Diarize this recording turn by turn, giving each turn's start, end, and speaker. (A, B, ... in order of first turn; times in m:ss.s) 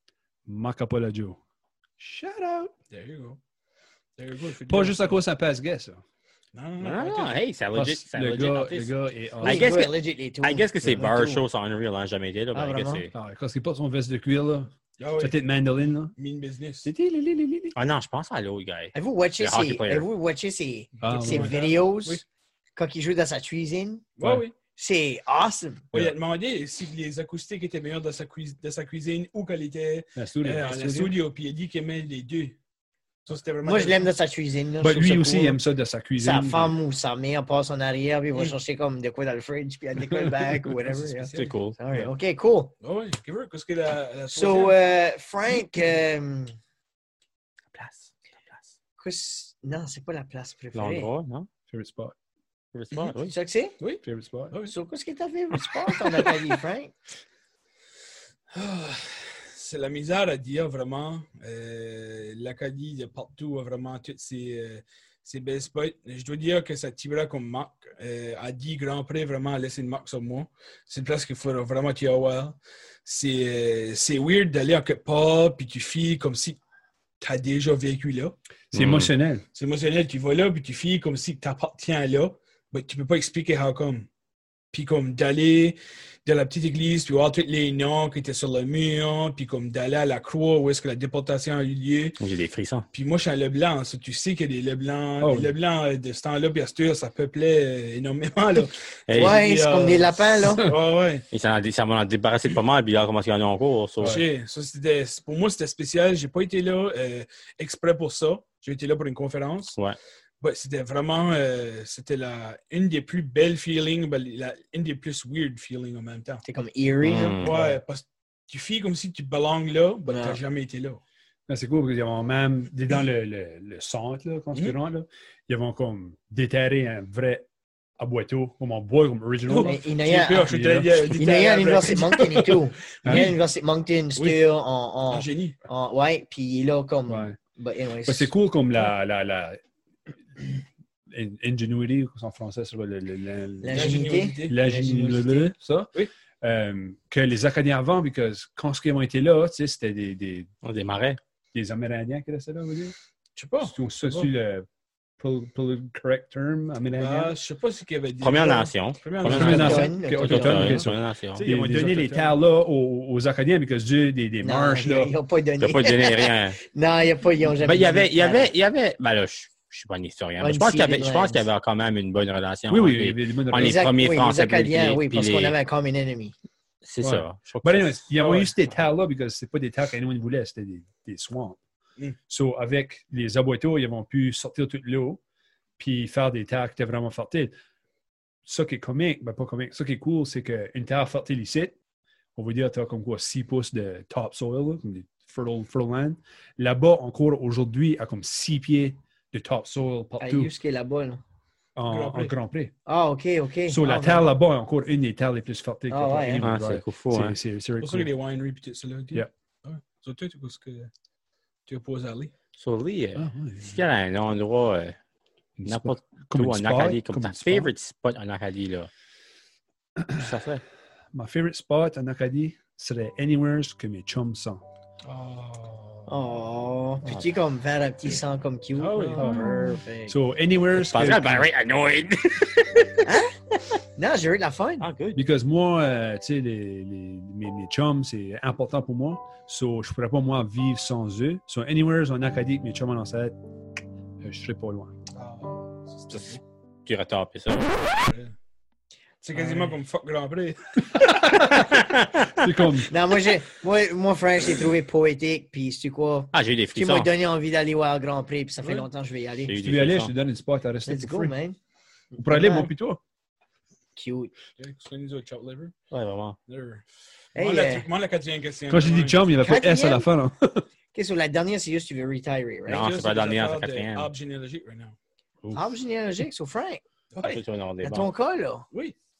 0:00.4-0:01.4 A
0:02.0-0:02.7 A
0:02.9-0:03.4 B
0:04.2-0:05.2 B
0:04.7-0:06.0 A
0:06.5-0:07.4 B
0:06.8-0:13.1 C
0:07.7-0:09.8 A
0:09.4-0:11.4 D
0:10.8-0:11.1 A
0:12.5-0:13.0 D
0:13.1-0:16.2 A
0:15.0-0:15.4 B
0:16.2-0:16.9 B
0:16.8-0:17.7 A
0:17.7-0:20.1 C
0:18.9-0:22.2 D
0:21.0-0:22.2 B
0:21.0-0:21.6 A
0:22.8-0:24.1 D
0:24.2-0:24.5 B
0:24.8-0:25.9 D
0:25.9-0:32.6 B
0:30.2-0:31.2 A
0:33.2-0:34.1 B
0:33.6-0:35.6 D
0:34.8-0:36.8 A
0:36.2-0:42.7 D
0:40.1-0:40.8 A
0:41.2-0:41.5 B
0:41.3-0:41.8 C
0:42.8-0:44.8 B
0:44.3-0:46.5 D
0:47.7-0:48.7 C
0:49.0-0:51.1 D
0:50.7-0:51.5 C
0:51.7-0:52.1 A
0:52.7-0:53.3 C
0:53.2-0:53.8 D
0:53.8-0:54.7 B
0:54.0-0:54.6 A
0:54.7-0:56.9 D
0:58.5-1:16.6 B
1:17.2-1:18.4 B
1:18.7-1:19.4 A
1:18.7-1:19.1 C
1:19.5-1:24.1 B
1:24.7-1:32.2 B
1:32.2-1:32.8 C
1:32.9-1:41.2 B
1:35.2-1:35.5 A
1:39.1-1:39.4 C
1:39.1-1:40.7 D
1:41.3-1:44.2 C
1:44.0-1:49.8 B
1:50.4-1:56.4 B
1:56.4-1:57.4 D
1:57.0-1:57.6 C
1:57.4-2:01.0 B
1:57.5-1:57.8 A
2:00.1-2:00.4 D
2:01.5-2:07.5 A
2:08.0-2:11.2 A
2:09.4-2:13.4 B
2:09.6-2:10.5 D
2:11.1-2:18.3 D
2:13.0-2:13.3 A
2:14.2-2:14.4 B
2:15.1-2:15.6 B
2:17.1-2:17.4 A
2:18.0-2:19.6 A
2:21.1-2:30.5 A
2:23.6-2:25.5 D
2:23.7-2:24.6 B
2:30.6-2:31.2 C
2:31.5-2:33.0 A
2:33.4-2:34.3 B
2:33.6-2:34.7 A
2:35.2-2:37.3 A
2:36.9-2:39.9 B
2:38.2-2:41.4 C
2:39.2-2:45.1 A
2:39.3-2:40.9 D
2:41.3-2:42.4 B
2:44.4-2:48.5 D
2:45.6-2:46.6 C
2:47.5-2:55.6 C
2:50.4-2:51.4 D
2:52.7-2:53.9 A
2:53.6-2:56.3 D
2:56.8-2:58.0 C
2:57.0-3:01.6 A
2:58.2-2:58.5 B
3:02.3-3:05.2 A
3:05.8-3:07.6 A
3:08.4-3:11.7 A
3:12.4-3:20.5 A
3:20.2-3:21.2 D
3:21.8-3:22.7 A
3:21.9-3:22.3 B
3:22.9-3:23.8 D
3:23.7-3:28.1 A
3:23.8-3:24.3 B
3:25.9-3:26.5 D
3:26.4-3:27.4 C
3:27.8-3:30.9 B
3:31.7-3:32.3 B
3:32.6-3:35.0 C
3:33.2-3:33.8 A
3:35.6-3:37.7 A
3:35.6-3:38.9 C
3:40.0-3:40.4 A
3:40.1-3:40.6 C
3:41.1-3:44.6 A
3:45.0-3:46.3 B
3:46.1-3:50.2 D
3:48.7-3:49.4 B
3:49.2-3:51.5 A
3:50.7-3:53.1 C
3:53.0-3:53.3 D
3:54.0-3:54.9 D
3:54.8-3:55.2 C
3:55.1-4:03.4 A
4:04.2-4:04.9 A
4:05.1-4:06.4 B
4:06.8-4:08.0 C
4:08.0-4:08.3 B
4:09.2-4:11.4 B
4:10.9-4:12.9 A
4:11.1-4:12.3 C
4:12.9-4:19.5 D
4:16.3-4:17.1 C
4:18.6-4:18.9 B
4:19.4-4:20.1 C
4:19.6-4:21.3 A
4:20.8-4:21.6 D
4:22.1-4:22.7 D
4:22.2-4:23.0 A
4:24.0-4:24.3 D
4:24.6-4:25.7 B
4:25.9-4:26.4 C
4:26.5-4:26.8 B
4:27.3-4:27.9 D
4:27.4-4:29.2 B
4:28.7-4:30.7 A
4:29.4-4:30.1 D
4:30.9-4:32.9 D
4:32.7-4:34.1 C
4:32.7-4:35.0 B
4:35.5-4:36.8 D
4:37.1-4:37.4 B
4:37.2-4:38.1 C
4:37.8-4:38.7 D